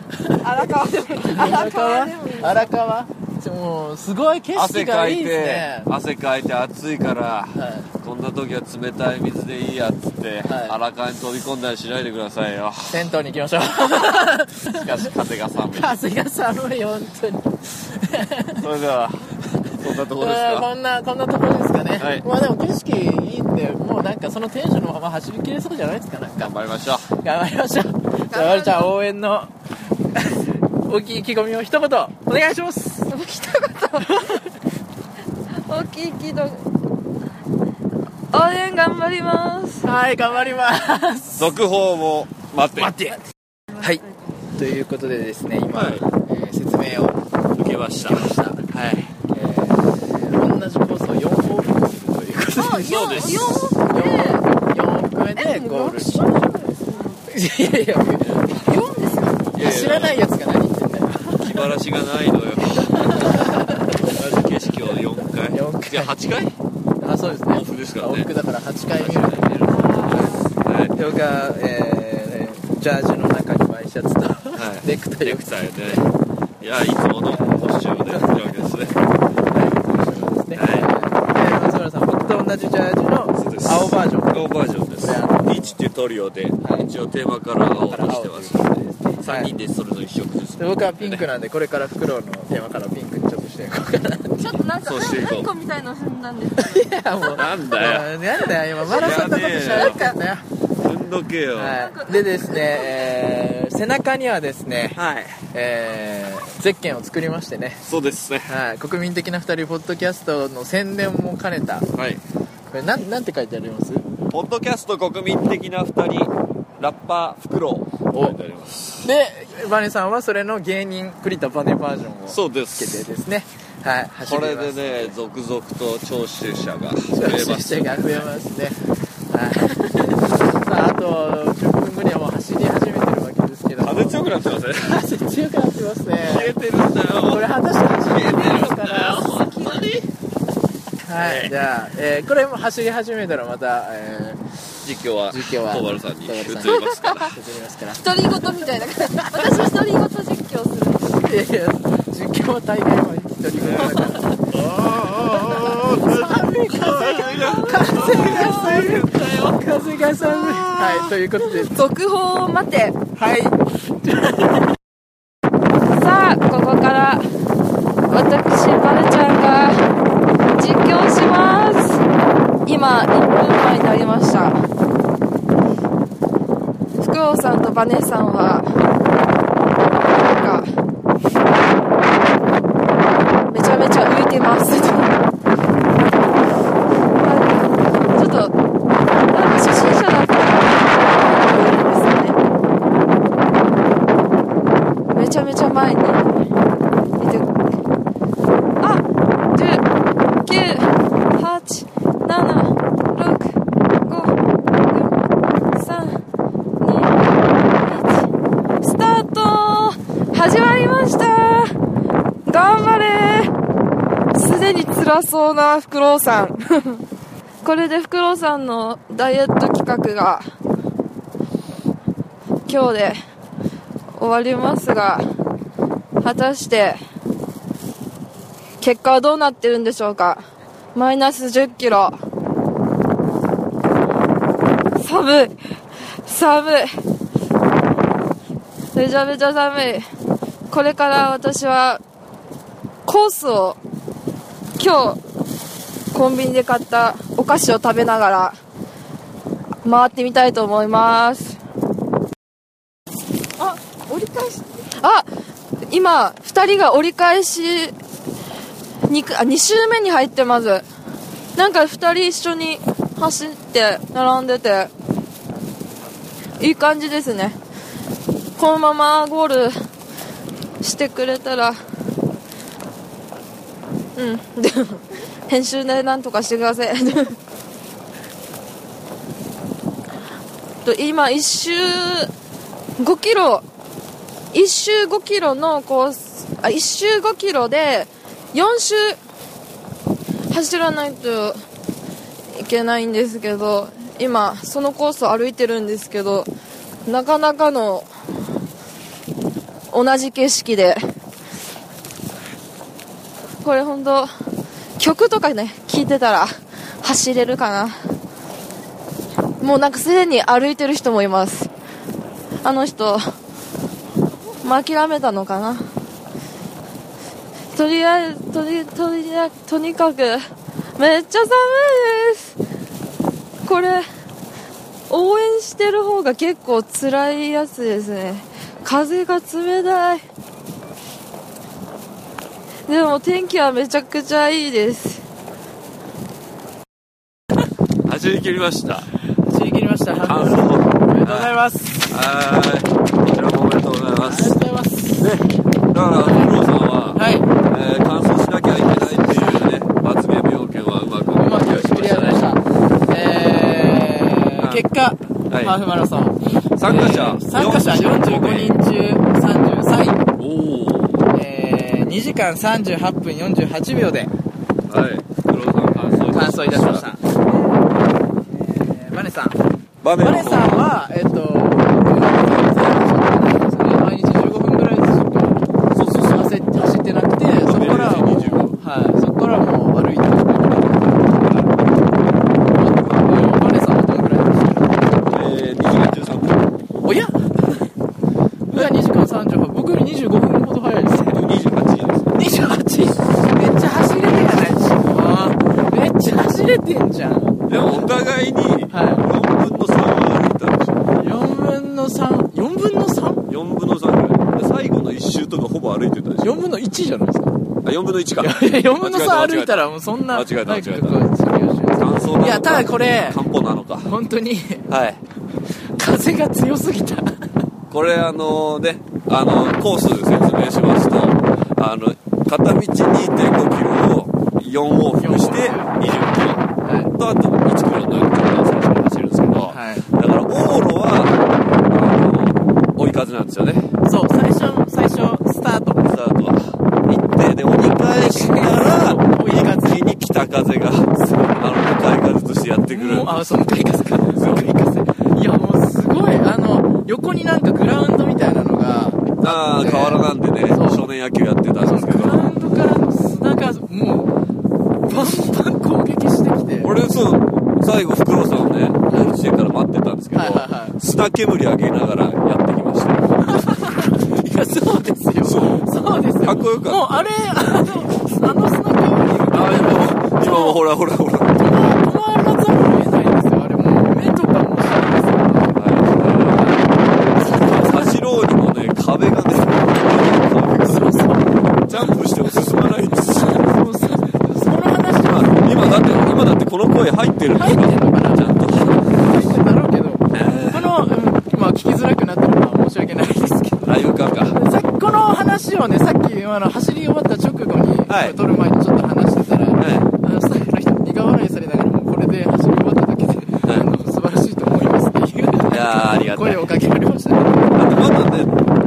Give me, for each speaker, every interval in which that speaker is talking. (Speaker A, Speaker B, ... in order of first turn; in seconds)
Speaker A: 0.1-0.5, 1.2-5.9, 7.5-7.9, 10.4-10.8, 12.9-15.1, 15.7-18.6, 20.1-26.5, 27.1-29.5, 30.1-33.1, 34.0-34.4, 39.8-41.5, 42.8-43.2, 44.5-47.2, 48.1-56.3, 57.2-58.8, 59.5-61.6, 62.7-64.1, 65.5-66.2, 67.0-69.4, 70.0-70.4, 70.9-76.1, 77.3-78.3, 79.5-84.4, 85.0-85.8, 86.6-86.9, 87.9-89.5, 90.6-94.6, 96.6-100.4, 101.5-105.0, 105.5-107.8, 108.5-111.9, 112.7-114.0, 119.0-125.1, 127.1-128.8, 129.3-134.2, 134.8-136.6, 137.2-139.4, 141.0-144.4, 145.3-149.7, 151.2-154.4, 155.4-161.9, 163.2-164.5, 339.5-342.0, 344.2-345.3, 346.2-346.5, 347.1-347.5, 351.3-360.2, 361.3-364.3, 366.3-367.2, 368.7-369.6, 370.2-375.6, 376.3-381.4, 382.7-385.1, 387.0-387.8, 388.7-391.4, 392.3-398.1, 398.9-399.2, 401.1-403.4, 406.4-407.5, 408.4-413.4, 414.0-414.9, 416.0-417.5, 425.2-425.9, 426.8-427.1, 429.6-430.1, 434.0-436.1, 438.1-440.0, 442.9-451.0, 451.8-454.4, 455.0-457.0, 460.3-461.0, 463.4-470.8, 471.5-475.7, 476.5-478.1, 480.8-482.1, 483.3-486.2, 487.5-488.5, 489.1-493.9, 494.5-507.6
Speaker B: 0.4-2.7, 28.3-28.9, 33.1-34.4, 35.7-36.6, 38.3-39.8, 52.5-54.4, 55.4-57.2, 58.5-59.5, 69.8-70.3, 94.4-96.9, 99.8-100.1, 101.7-103.0, 139.1-139.9, 146.6-147.3, 147.9-151.3, 157.2-158.9, 161.7-163.0, 166.0-167.2, 168.1-169.8, 170.5-172.0, 172.7-174.6, 177.0-178.7, 180.2-180.7, 183.5-185.1, 187.2-188.5, 189.3-192.4, 195.1-196.4, 197.2-197.5, 198.8-199.8, 200.4-203.5, 204.1-204.3, 204.9-205.1, 205.7-206.2, 206.8-208.3, 208.8-211.7, 212.4-213.5, 214.3-217.0, 217.6-220.4, 222.7-223.2, 224.2-225.2, 226.2-227.0, 228.8-230.4, 230.9-232.2, 235.0-235.6, 236.2-236.9, 238.9-240.0, 240.7-242.0, 243.1-243.8, 244.8-245.2, 246.1-248.6, 249.8-251.6, 253.6-255.3, 255.9-257.9, 259.1-260.9, 261.6-264.9, 266.6-267.6, 268.6-269.7, 270.8-271.8, 274.1-277.4, 280.8-282.3, 283.0-283.6, 284.5-289.2, 290.5-291.6, 292.5-296.5, 297.1-298.1, 299.9-301.0, 303.6-304.3, 305.0-306.5, 307.0-307.9, 309.6-311.7, 312.6-313.2, 314.6-315.9, 317.7-320.4, 321.0-322.5, 323.6-324.0, 325.1-330.2, 332.9-335.2
Speaker C: 4.5-13.1, 14.7-15.9, 18.6-20.7, 22.0-22.2, 26.4-27.1, 41.3-42.9, 45.7-46.0, 47.5-48.3, 52.8-53.7, 59.5-60.2, 61.3-66.5, 67.3-68.3, 68.9-70.9, 74.5-76.0, 76.6-79.0, 80.5-80.9, 83.4-91.2, 94.8-95.5, 97.3-98.1, 98.8-100.1, 100.8-101.8, 105.0-105.4, 107.8-108.5, 111.9-112.2, 114.3-119.0, 122.3-123.0, 124.2-128.3, 133.8-135.0, 136.2-137.5, 138.0-140.1, 141.1-141.7, 144.8-147.3, 153.6-161.2, 338.0-339.1, 340.2-341.5, 342.1-344.6, 345.2-352.5, 354.6-354.9, 355.5-355.8, 356.8-358.8, 360.4-361.2, 364.9-367.1, 370.0-370.9, 375.9-376.6, 377.6-378.8, 381.4-381.7, 385.3-386.7, 391.3-392.3, 397.7-401.1, 403.5-406.6, 407.8-411.2, 411.9-414.1, 414.9-415.2, 417.9-433.9, 436.0-443.6, 444.3-444.7, 449.4-452.5, 456.8-463.5, 465.4-467.3, 468.0-468.6, 469.5-471.7, 475.7-476.7, 477.3-481.3, 481.9-483.7, 485.2-489.1, 490.3-491.0, 493.8-494.6, 498.1-498.4, 499.8-500.1, 505.7-506.7, 507.7-508.6